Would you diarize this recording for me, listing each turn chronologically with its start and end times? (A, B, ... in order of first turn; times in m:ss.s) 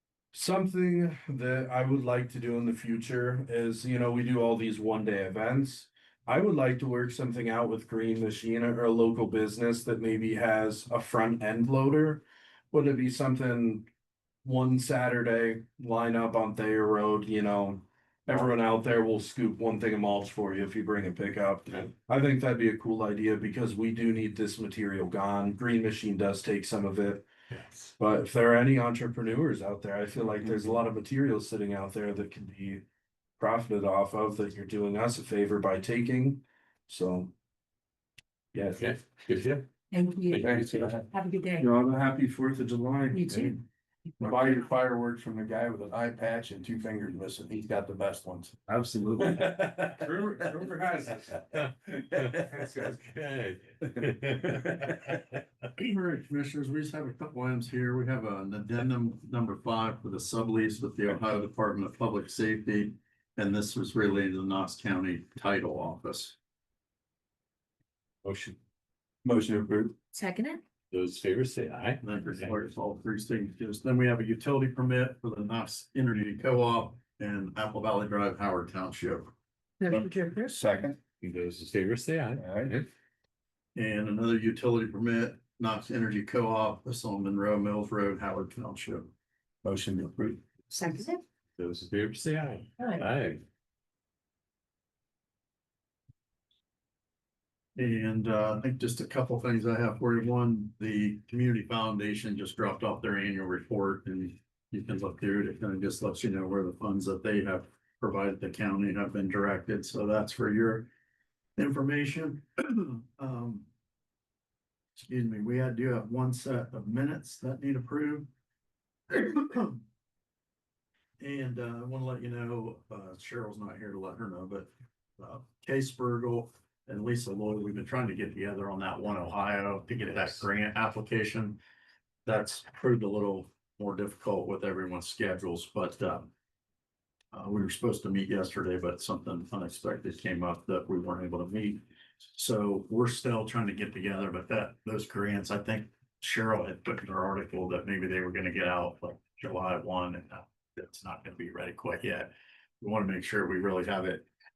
0:00.3-0:13.9 A
0:14.4-0:27.2 A
0:27.5-0:27.9 B
0:28.0-0:32.8 A
0:33.4-0:37.3 A
0:38.5-0:38.8 A
0:38.7-0:39.7 B
0:39.9-0:41.7 C
0:40.3-0:40.9 B
0:41.6-0:43.6 A
0:43.1-0:43.6 C
0:44.2-0:49.4 D
0:49.2-0:51.4 A
0:52.2-0:55.2 B
0:55.8-1:06.3 E
1:08.2-1:08.5 B
1:10.1-1:10.6 C
1:10.9-1:12.5 B
1:12.0-1:19.3 E
1:19.8-1:20.6 C
1:20.0-1:21.0 D
1:21.2-1:22.9 B
1:22.4-1:22.7 D
1:23.7-1:29.1 E
1:29.6-1:30.4 D
1:30.7-1:31.2 C
1:31.6-1:33.4 B
1:32.8-1:33.0 C
1:37.8-1:50.9 E
1:51.6-1:53.7 E
1:55.0-1:58.3 E
1:59.1-1:59.8 E
2:01.2-2:11.6 E
2:12.2-2:16.3 E
2:17.3-2:34.3 E